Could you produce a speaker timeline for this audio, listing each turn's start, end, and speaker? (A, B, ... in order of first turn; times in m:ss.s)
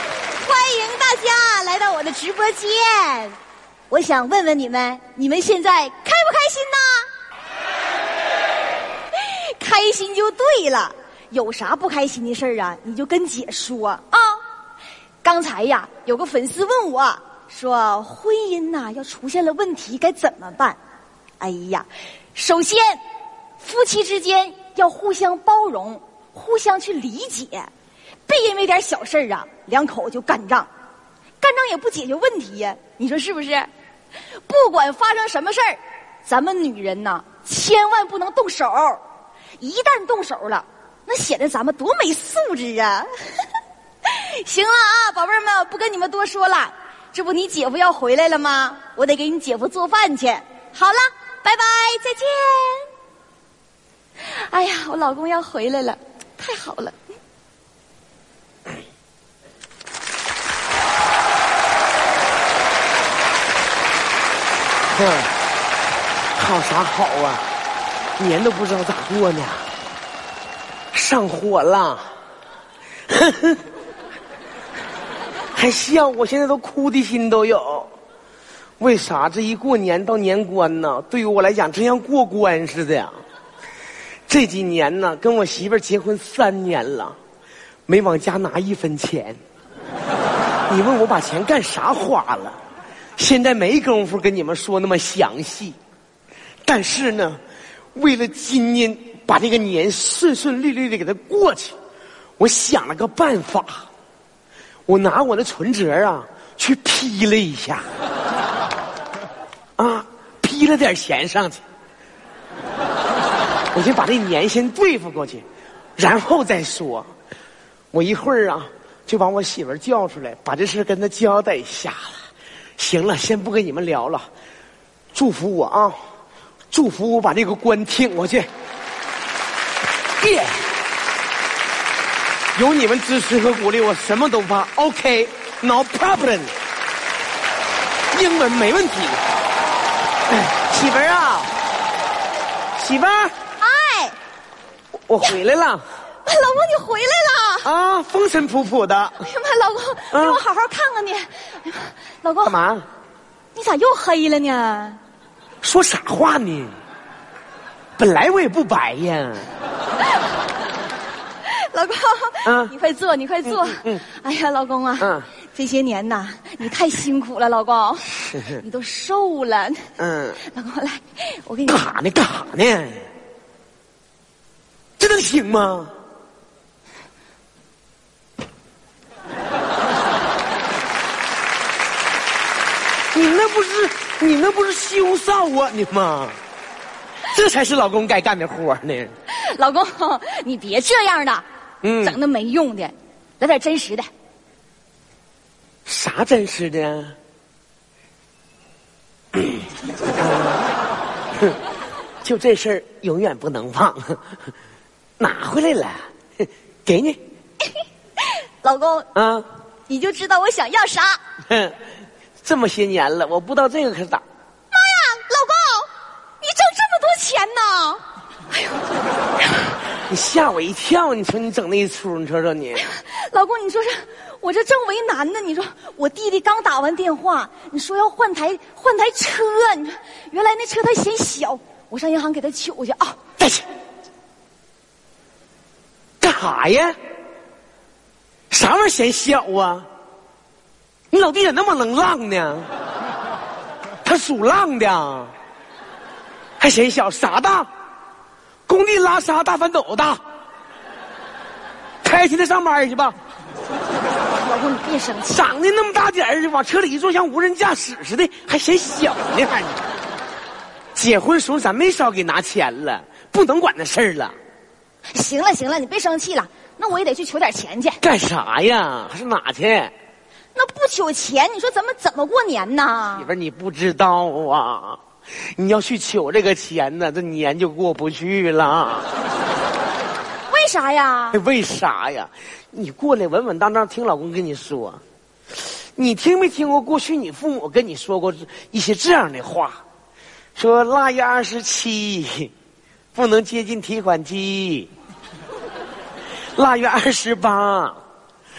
0:00.4-0:03.4 A
0:03.9-0:07.1 A
0:09.5-0:14.4 A
0:15.2-0:20.8 A
0:21.4-0:23.0 A
0:23.6-0:27.7 A
0:28.3-0:30.7 A
0:31.4-0:33.7 A
0:34.5-0:39.0 A
0:39.6-0:43.1 A
0:44.1-0:52.9 A
0:54.2-0:57.0 A
1:05.0-1:05.3 B
1:06.4-1:07.4 B
1:08.2-1:09.7 B
1:10.9-1:12.1 B
1:13.1-1:13.6 B
1:15.6-1:17.9 B
1:18.8-1:23.2 B
1:24.3-1:27.2 B
1:27.9-1:29.4 B
1:30.7-1:32.6 B
1:33.2-1:35.8 B
1:36.7-1:37.4 B
1:38.0-1:41.8 B
1:42.4-1:43.9 B
1:44.9-1:47.9 B
1:49.8-1:51.6 B
1:53.7-1:55.4 B
1:56.0-1:57.1 B
1:57.9-2:02.2 B
2:02.8-2:04.3 B
2:05.1-2:06.0 B
2:06.7-2:08.5 B
2:10.2-2:10.7 B
2:12.6-2:16.5 B
2:18.1-2:19.2 B
2:20.3-2:21.5 B
2:22.8-2:23.3 B
2:23.6-2:24.2 A
2:25.1-2:25.8 B
2:26.2-2:27.7 A
2:27.6-2:29.2 B
2:29.2-2:32.6 A
2:30.1-2:30.4 B
2:32.4-2:32.9 B
2:33.6-2:35.0 A
2:35.6-2:36.8 B
2:38.0-2:39.5 B
2:41.5-2:49.9 A
2:42.5-2:42.7 B
2:43.4-2:44.0 B
2:45.0-2:45.3 B
2:50.0-2:50.4 B
2:50.4-2:51.9 A
2:51.7-2:53.1 B
2:55.0-2:55.9 B
3:03.1-3:06.4 B
3:07.3-3:09.1 B
3:09.4-3:11.4 A
3:11.8-3:12.2 B
3:12.0-3:14.1 A
3:15.9-3:17.2 B
3:20.2-3:20.6 B
3:22.2-3:24.2 B
3:25.2-3:27.2 B
3:28.6-3:29.1 A
3:29.2-3:29.5 B
3:29.9-3:31.2 A
3:31.5-3:31.8 B
3:32.4-3:34.2 B
3:34.7-3:38.0 A
3:40.1-3:42.8 B
3:42.8-3:53.2 A
3:53.4-3:53.6 B
3:56.2-3:57.0 B
3:58.5-3:59.9 B
4:01.1-4:02.7 B
4:04.0-4:05.3 B
4:06.6-4:07.7 B
4:08.7-4:10.2 B
4:12.0-4:13.2 B
4:14.4-4:15.5 A
4:15.3-4:19.8 B
4:21.0-4:24.4 B
4:25.1-4:28.0 A
4:28.0-4:29.9 B
4:30.5-4:33.3 A
4:33.2-4:39.1 B
4:40.5-4:41.4 A
4:41.3-4:45.0 B
4:45.6-4:49.8 B
4:50.6-4:52.5 B
4:53.1-4:54.9 B
4:56.6-4:58.0 B